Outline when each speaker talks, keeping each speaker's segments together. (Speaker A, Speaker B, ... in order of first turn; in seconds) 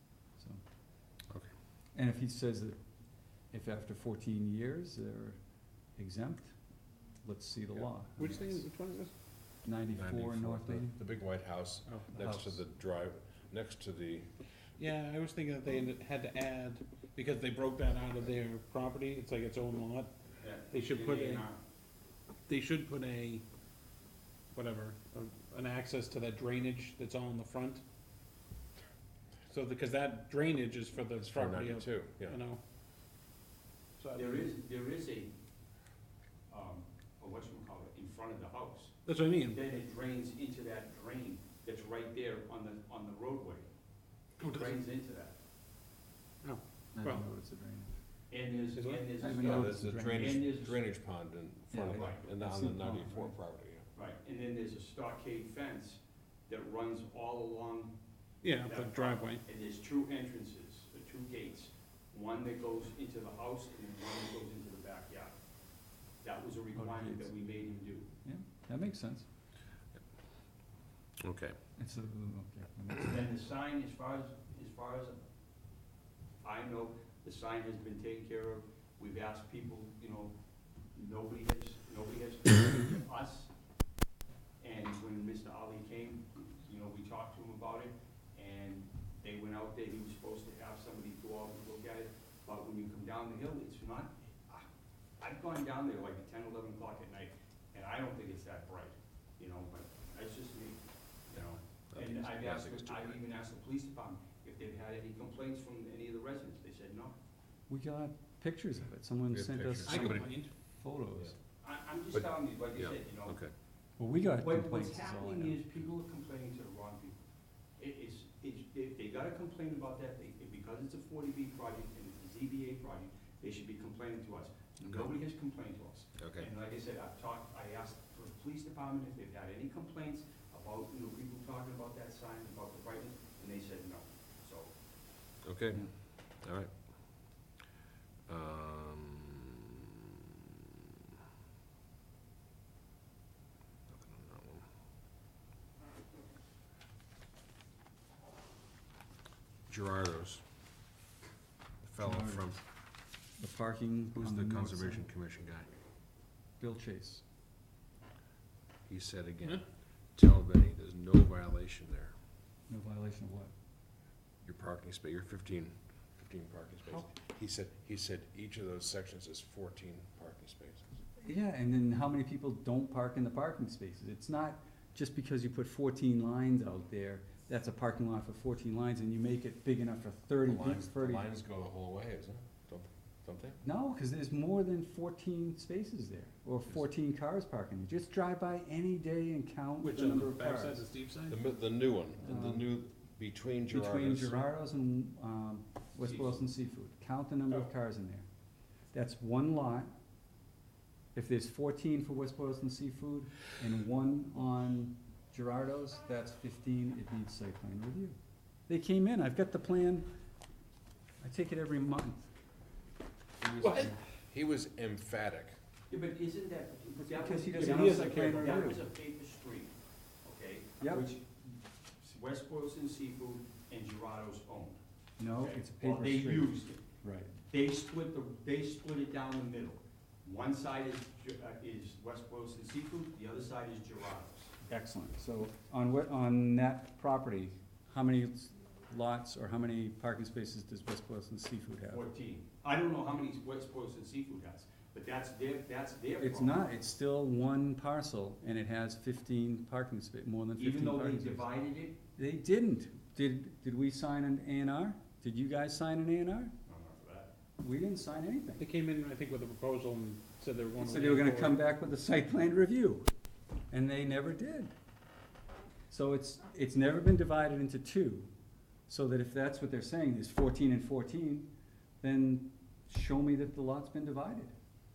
Speaker A: 1.9-2.8, 3.5-5.4, 6.0-6.6, 7.2-8.7, 9.7-11.0, 12.1-12.6, 46.9-48.0, 49.2-50.4, 51.7-53.4, 66.8-67.3, 68.2-69.3, 71.8-73.3, 107.7-111.3, 114.0-115.6, 152.0-152.6, 153.4-155.1, 156.6-157.2, 162.7-163.5, 171.2-181.3, 183.6-190.8, 192.2-192.7, 193.7-198.3, 198.9-199.9, 201.1-208.2, 208.7-210.1, 211.2-212.3, 213.4-214.0, 217.0-218.8, 220.8-221.1, 225.2-227.3, 234.7-242.0, 246.2-251.5, 252.2-256.5, 257.6-258.6, 260.8-263.1, 263.7-264.7, 265.9-268.3, 268.9-271.5, 272.0-274.5
Speaker B: 8.2-9.1, 14.8-20.1, 20.7-21.5, 22.5-23.4, 24.5-27.8, 29.5-32.6, 34.0-34.5, 39.1-39.6, 44.4-44.8, 46.4-47.2, 48.8-49.1, 58.4-59.4, 109.9-110.5, 189.8-191.4, 213.6-213.9, 217.6-218.5, 258.6-261.6
Speaker C: 9.9-14.3, 31.2-32.4, 49.4-53.9, 71.2-71.6, 101.9-103.2, 109.3-110.3, 112.1-113.5, 126.2-126.5, 135.4-137.2, 138.3-140.6, 143.9-144.7, 149.7-150.4, 151.8-152.6, 154.2-155.7, 158.9-162.1, 164.4-170.9, 180.4-183.6, 191.3-194.4, 213.6-215.6
Speaker D: 20.4-21.6, 34.1-35.3, 36.5-43.7, 44.4-45.3, 48.3-50.8, 51.9-52.2, 53.9-57.9, 58.6-65.3, 66.2-68.1, 73.0-75.2, 76.4-80.3, 81.0-83.5, 84.6-94.7, 95.2-107.2, 111.6-113.4, 114.4-117.2, 117.8-134.7, 196.0-196.5, 215.9-219.7, 220.2-224.8, 225.4-226.8, 227.5-234.6, 241.9-246.6, 250.6-252.0, 256.7-257.3